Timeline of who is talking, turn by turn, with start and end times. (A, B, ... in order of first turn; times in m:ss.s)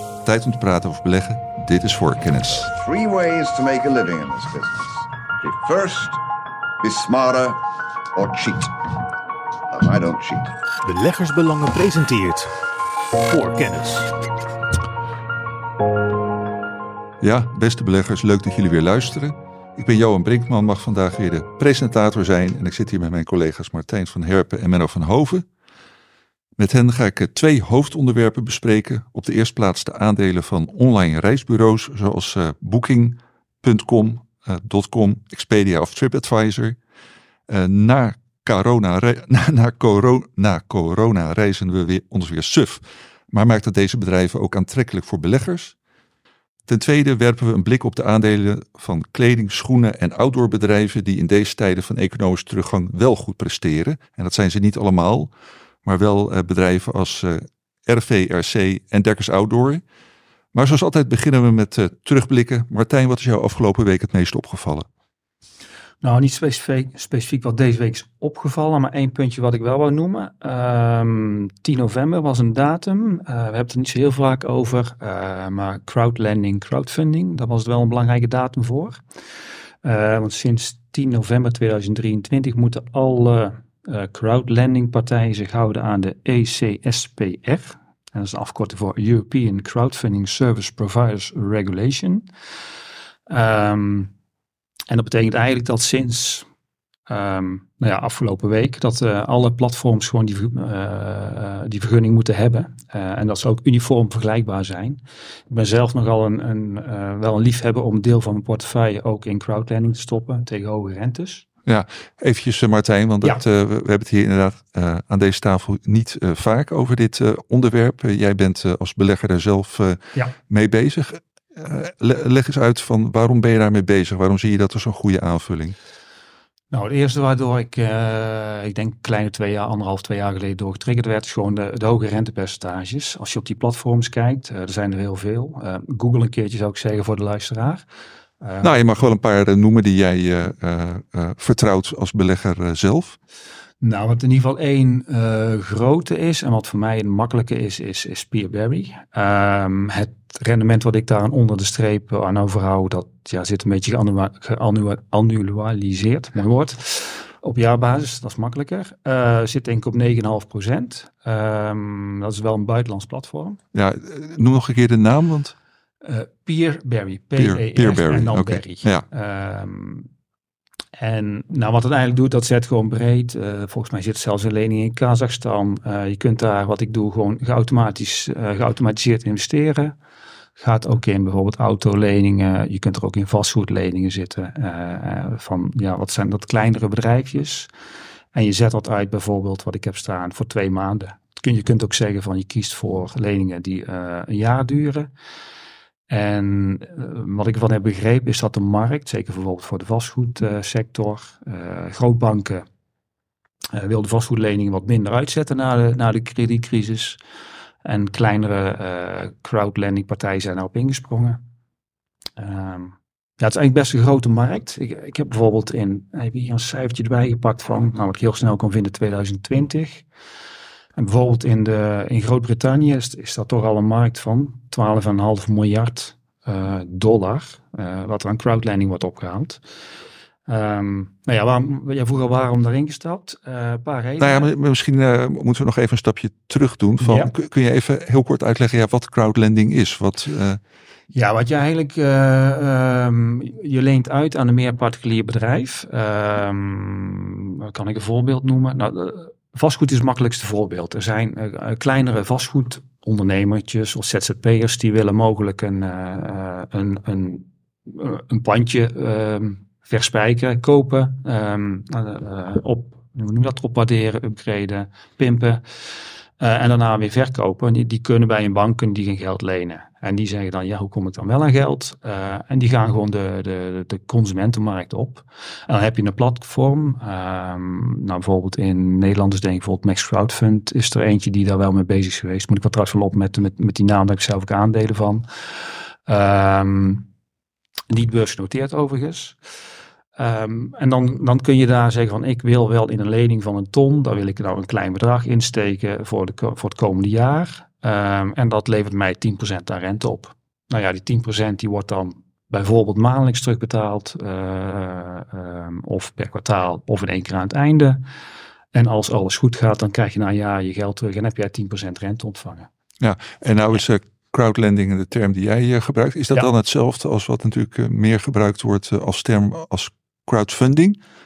0:00.2-0:02.7 A
0:02.7-0:06.2 B
0:06.8-0:07.6 B
0:08.1-0:08.8 B
0:09.7-0:10.6 B
0:10.8-0:14.2 C
0:17.2-0:25.4 A
0:26.6-0:36.8 A
0:37.5-0:45.8 A
0:46.6-0:55.3 A
0:55.8-0:59.8 A
1:00.5-1:04.9 A
1:06.0-1:19.0 D
1:19.8-1:32.2 D
1:33.3-1:34.1 D
1:34.9-1:36.5 D
1:37.1-1:51.4 D
1:51.6-2:05.7 A
2:06.7-2:17.8 D
2:18.4-2:18.7 D
2:18.6-2:23.2 A
2:23.8-2:43.6 D
2:43.7-2:45.5 A
2:46.0-2:50.1 D
2:47.4-2:49.0 A
2:51.0-3:00.0 D
3:00.6-3:07.7 D
3:08.3-3:15.1 D
3:16.1-3:22.6 D
3:23.7-3:27.2 D
3:27.8-3:31.4 D
3:32.4-3:40.0 D
3:41.0-3:49.6 D
3:50.5-3:54.5 D
3:54.2-4:00.6 A
3:57.0-3:57.3 D
4:01.1-4:47.1 D
4:47.9-4:49.4 D
4:50.2-5:08.0 D
5:08.7-5:12.7 D
5:13.0-5:21.0 A